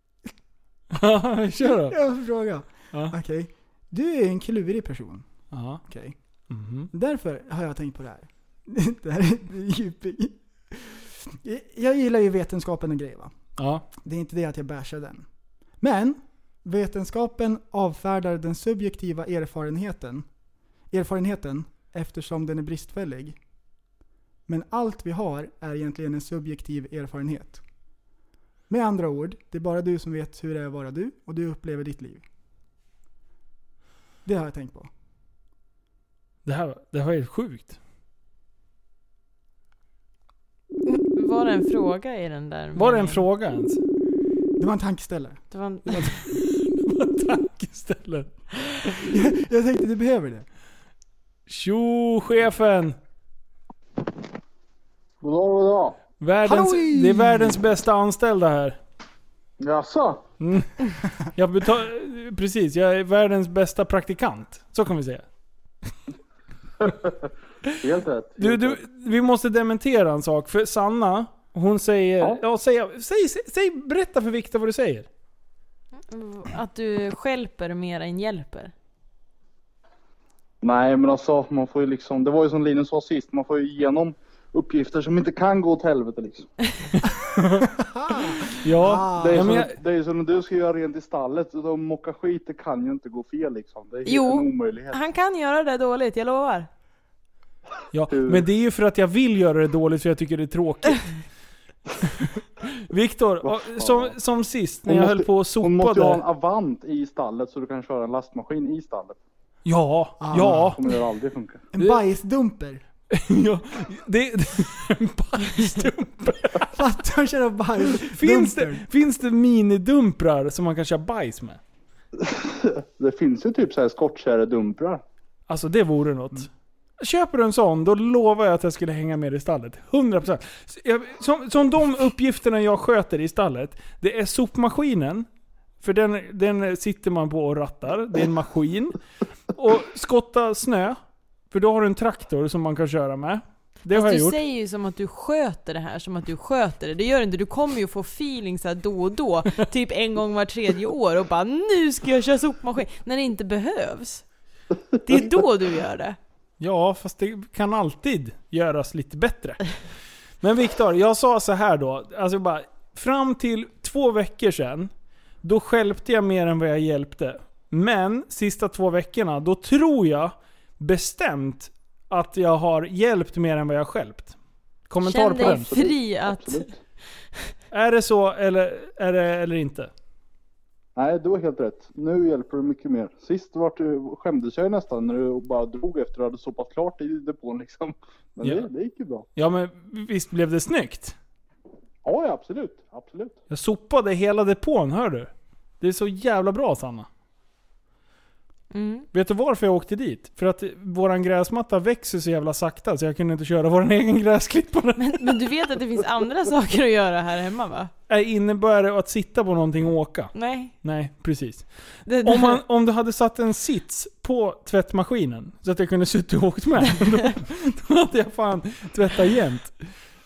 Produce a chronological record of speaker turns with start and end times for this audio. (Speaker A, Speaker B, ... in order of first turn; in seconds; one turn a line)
Speaker A: 0.9-2.0
Speaker B: 1.6-5.3
Speaker A: 5.5-5.8
Speaker B: 5.8-6.1
Speaker A: 6.5-6.9
Speaker B: 6.9-13.3
Speaker A: 13.6-13.8
Speaker B: 14.0-15.2
Speaker B: 15.8-20.3
Speaker B: 20.9-23.4
Speaker B: 24.5-27.6
Speaker B: 28.7-32.2
Speaker B: 34.2-34.9
Speaker A: 36.4-37.8
Speaker C: 40.9-43.2
Speaker A: 42.8-43.8
Speaker B: 44.6-45.4
Speaker C: 45.5-46.2
Speaker A: 45.9-48.3
Speaker B: 49.0-50.5
Speaker A: 51.5-53.0
Speaker D: 55.2-56.0
Speaker A: 56.2-58.8
Speaker B: 56.4-57.6
Speaker D: 59.6-60.2
Speaker A: 60.4-65.2
Speaker D: 66.8-67.1
Speaker D: 67.8-68.8
Speaker A: 68.4-75.1
Speaker C: 76.1-78.7
Speaker D: 80.6-86.5
Speaker A: 87.0-87.7
Speaker B: 87.6-89.7
Speaker A: 88.6-89.8
Speaker D: 89.1-95.0
Speaker C: 94.0-96.7
Speaker A: 97.9-101.2
Speaker D: 98.1-98.5
Speaker A: 102.0-106.2
Speaker D: 103.4-104.2
Speaker D: 104.8-109.2
Speaker A: 109.6-110.8
Speaker B: 110.2-110.8
Speaker D: 110.5-111.7
Speaker B: 111.7-112.8
Speaker A: 113.1-116.7
Speaker B: 116.7-118.8
Speaker A: 118.0-121.6
Speaker D: 122.2-125.0
Speaker A: 125.5-126.5
Speaker A: 127.0-135.3
Speaker A: 135.8-139.0
Speaker A: 139.6-141.0
Speaker A: 141.5-144.4
Speaker C: 143.9-154.2
Speaker C: 155.0-156.2
Speaker A: 156.6-159.8
Speaker A: 160.4-164.9
Speaker A: 165.4-174.3
Speaker A: 174.9-175.7
Speaker C: 175.0-176.8
Speaker D: 175.4-176.8
Speaker A: 177.7-179.9
Speaker D: 180.9-189.3
Speaker A: 188.4-188.7
Speaker A: 189.3-191.2
Speaker D: 192.0-193.4
Speaker A: 193.5-197.1
Speaker C: 198.7-199.1
Speaker A: 199.1-205.4
Speaker C: 205.0-207.9
Speaker A: 208.1-219.8
Speaker C: 210.3-210.7
Speaker C: 212.1-212.6